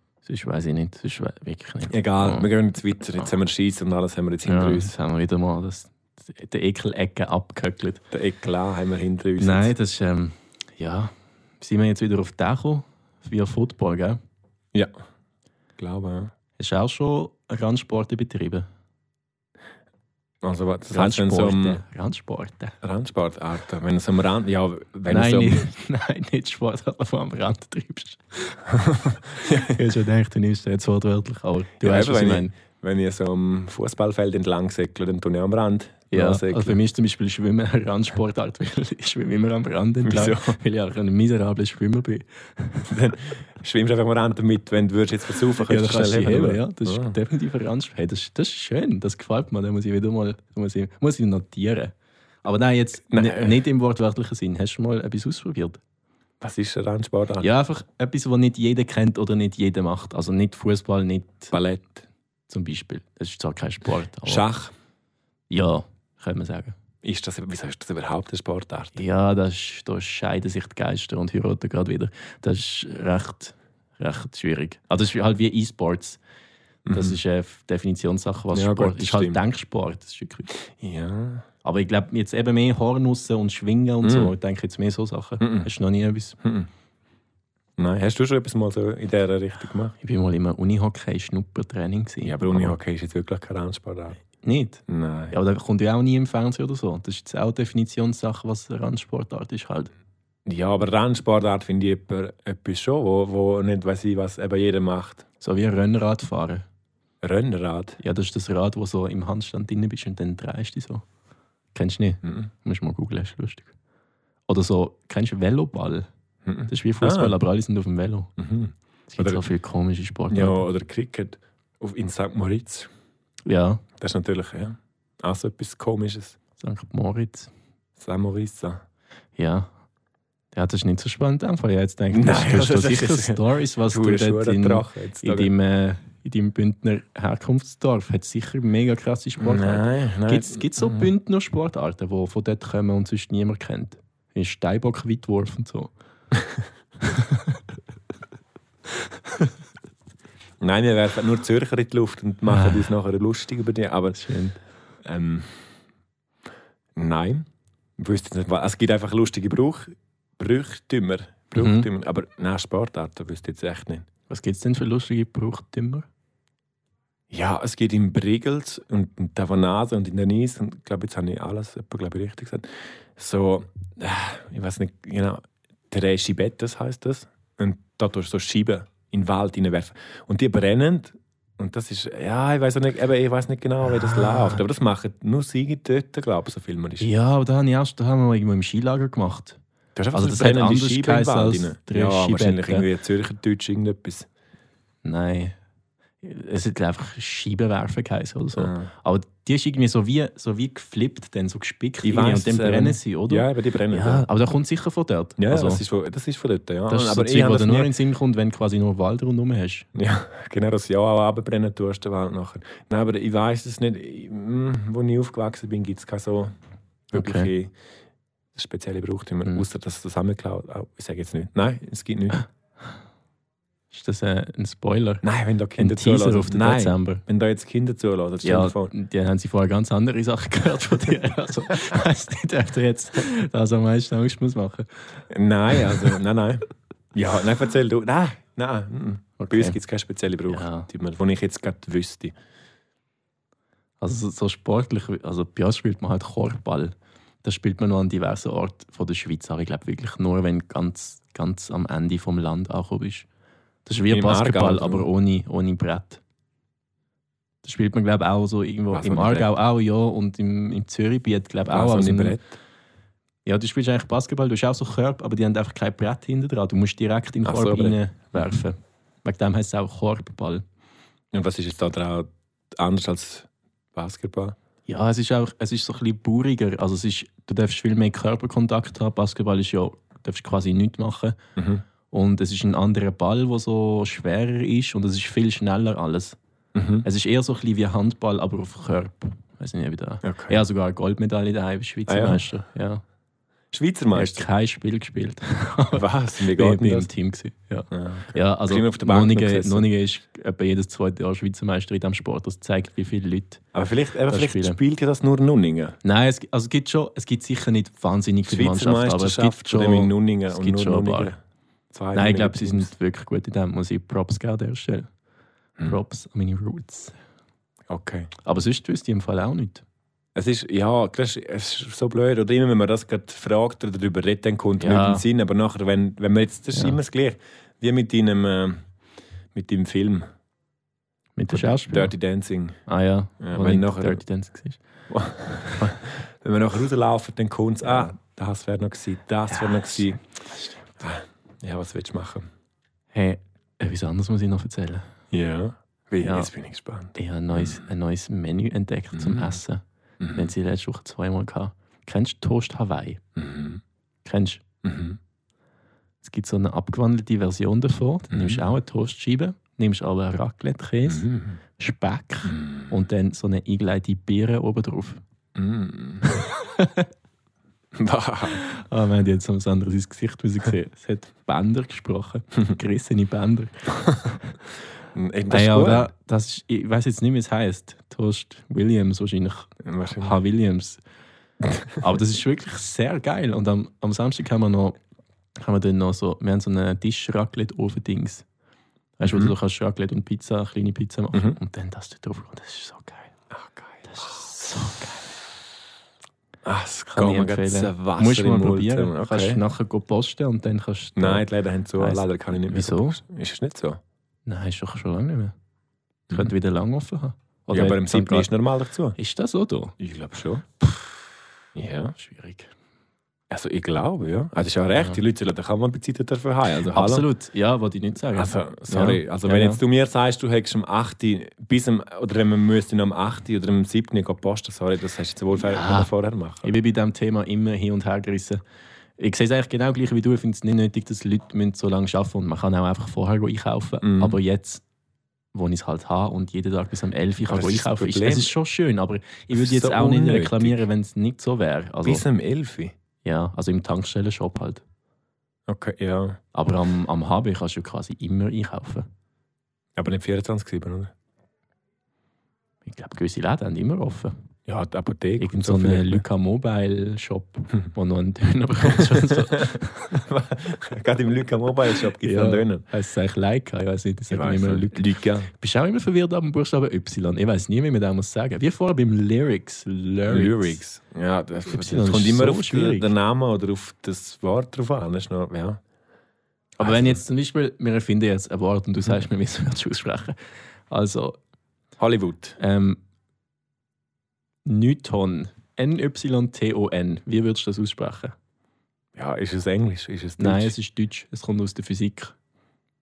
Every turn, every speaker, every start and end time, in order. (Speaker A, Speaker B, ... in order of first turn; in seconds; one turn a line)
Speaker A: 0.2-2.5
Speaker B: 1.9-4.9
Speaker A: 4.4-8.0
Speaker B: 8.1-9.7
Speaker A: 9.4-14.2
Speaker B: 15.8-16.3
Speaker A: 16.6-18.7
Speaker B: 20.4-21.8
Speaker A: 20.9-22.8
Speaker B: 22.8-25.6
Speaker A: 25.1-28.7
Speaker B: 28.8-29.7
Speaker A: 29.4-32.5
Speaker B: 31.8-36.8
Speaker A: 36.1-42.9
Speaker B: 40.0-40.5
Speaker B: 42.9-47.1
Speaker A: 45.5-55.8
Speaker B: 53.1-53.6
Speaker B: 56.4-57.5
Speaker A: 57.4-61.5
Speaker B: 61.5-62.0
Speaker A: 62.5-64.5
Speaker B: 64.2-64.7
Speaker A: 65.5-66.8
Speaker B: 67.0-69.0
Speaker A: 69.0-76.2
Speaker B: 76.8-77.2
Speaker A: 76.9-80.5
Speaker B: 78.5-79.4
Speaker B: 80.7-81.4
Speaker A: 81.6-86.4
Speaker B: 84.0-84.3
Speaker B: 85.4-85.7
Speaker B: 86.4-86.7
Speaker B: 87.8-89.9
Speaker A: 90.0-92.7
Speaker B: 92.2-94.2
Speaker A: 94.4-99.9
Speaker B: 94.9-95.3
Speaker B: 100.5-105.2
Speaker A: 105.4-106.7
Speaker B: 107.2-108.0
Speaker A: 108.0-111.0
Speaker A: 111.7-113.7
Speaker A: 114.5-116.1
Speaker B: 116.5-117.3
Speaker A: 116.7-118.3
Speaker B: 118.4-119.4
Speaker A: 119.1-120.6
Speaker B: 120.3-122.9
Speaker A: 123.5-123.8
Speaker B: 124.0-126.4
Speaker A: 126.6-127.5
Speaker B: 128.0-128.8
Speaker A: 129.4-129.7
Speaker A: 130.5-145.9
Speaker B: 132.1-135.5
Speaker B: 139.4-141.1
Speaker A: 147.0-147.6
Speaker B: 150.6-154.2
Speaker A: 152.5-152.9
Speaker A: 154.1-154.6
Speaker B: 155.0-155.6
Speaker B: 156.9-164.1
Speaker A: 161.5-161.9
Speaker A: 164.3-166.1
Speaker B: 167.3-187.1
Speaker A: 183.9-184.6
Speaker A: 187.0-189.6
Speaker B: 189.9-194.3
Speaker A: 190.1-192.9
Speaker A: 195.0-195.6
Speaker A: 196.2-205.8
Speaker B: 198.5-198.9
Speaker B: 202.0-204.2
Speaker B: 205.4-207.9
Speaker A: 206.9-209.9
Speaker B: 209.9-216.5
Speaker B: 217.1-217.7
Speaker A: 217.1-217.5
Speaker B: 218.5-222.4
Speaker A: 223.9-225.2
Speaker B: 225.2-228.9
Speaker A: 225.8-227.2
Speaker A: 228.4-234.9
Speaker B: 235.3-242.3
Speaker A: 239.4-239.8
Speaker A: 240.5-240.9
Speaker A: 244.0-253.3
Speaker A: 253.8-256.2
Speaker B: 254.1-255.1
Speaker A: 257.6-262.4
Speaker B: 258.9-259.5
Speaker B: 261.7-262.5
Speaker A: 263.4-270.6
Speaker B: 267.4-268.5
Speaker B: 271.3-274.6
Speaker A: 274.9-281.4
Speaker B: 281.6-281.8
Speaker A: 282.1-286.4
Speaker B: 286.7-287.1
Speaker A: 287.0-293.0
Speaker B: 290.2-290.6
Speaker B: 292.1-292.4
Speaker B: 293.7-294.4
Speaker A: 294.1-303.6
Speaker B: 295.9-297.1
Speaker B: 297.9-299.9
Speaker B: 303.7-306.0
Speaker A: 304.3-304.8
Speaker A: 306.0-311.3
Speaker B: 308.5-311.4
Speaker B: 311.9-312.9
Speaker A: 312.1-315.1
Speaker A: 315.9-317.1
Speaker B: 317.9-318.3
Speaker A: 318.4-319.8
Speaker B: 320.3-328.9
Speaker A: 324.8-325.2
Speaker B: 329.5-330.3
Speaker A: 331.4-332.1
Speaker B: 331.5-332.8
Speaker A: 332.9-334.8
Speaker B: 333.4-334.2
Speaker B: 335.1-340.2
Speaker A: 339.5-340.8
Speaker B: 341.0-342.5
Speaker A: 343.1-345.1
Speaker B: 345.3-347.8
Speaker A: 346.2-346.5
Speaker A: 347.1-349.8
Speaker B: 349.1-349.6
Speaker B: 350.2-350.5
Speaker A: 350.3-353.2
Speaker B: 353.4-353.8
Speaker A: 354.2-354.6
Speaker B: 354.8-355.2
Speaker A: 356.2-365.2
Speaker B: 358.3-358.6
Speaker B: 361.1-361.6
Speaker B: 362.5-362.9
Speaker B: 365.5-366.4
Speaker A: 366.3-367.1
Speaker B: 367.9-368.6
Speaker A: 368.5-373.9
Speaker B: 375.1-376.1
Speaker A: 375.5-381.0
Speaker B: 379.8-380.4
Speaker A: 381.9-385.0
Speaker A: 385.6-388.4
Speaker A: 389.2-393.3
Speaker B: 389.2-389.5
Speaker B: 393.5-394.3
Speaker A: 394.1-395.2
Speaker B: 396.6-399.6
Speaker A: 397.1-401.4
Speaker B: 401.1-404.0
Speaker A: 402.0-403.2
Speaker A: 404.5-405.5
Speaker A: 406.3-408.5
Speaker B: 407.7-409.1
Speaker A: 409.1-409.9
Speaker B: 410.0-410.6
Speaker B: 411.8-412.1
Speaker A: 412.1-412.7
Speaker B: 413.5-417.3
Speaker A: 416.8-419.8
Speaker B: 418.3-426.7
Speaker A: 425.6-426.1
Speaker A: 426.6-428.6
Speaker A: 429.2-434.8
Speaker B: 434.0-434.4
Speaker A: 435.5-442.2
Speaker B: 437.5-438.5
Speaker B: 439.5-440.8
Speaker B: 442.0-442.9
Speaker A: 443.2-444.8
Speaker B: 445.7-446.4
Speaker A: 446.5-449.1
Speaker B: 449.9-451.1
Speaker A: 452.8-454.3
Speaker B: 454.7-456.2
Speaker A: 455.4-460.2
Speaker B: 459.0-462.9
Speaker A: 462.2-470.8
Speaker B: 464.3-465.5
Speaker B: 470.3-475.8
Speaker A: 471.7-473.1
Speaker A: 476.8-480.4
Speaker B: 476.8-477.2
Speaker A: 480.9-481.4
Speaker B: 482.0-482.6
Speaker A: 482.6-483.0
Speaker A: 484.6-488.4
Speaker B: 489.1-490.7
Speaker A: 490.4-492.3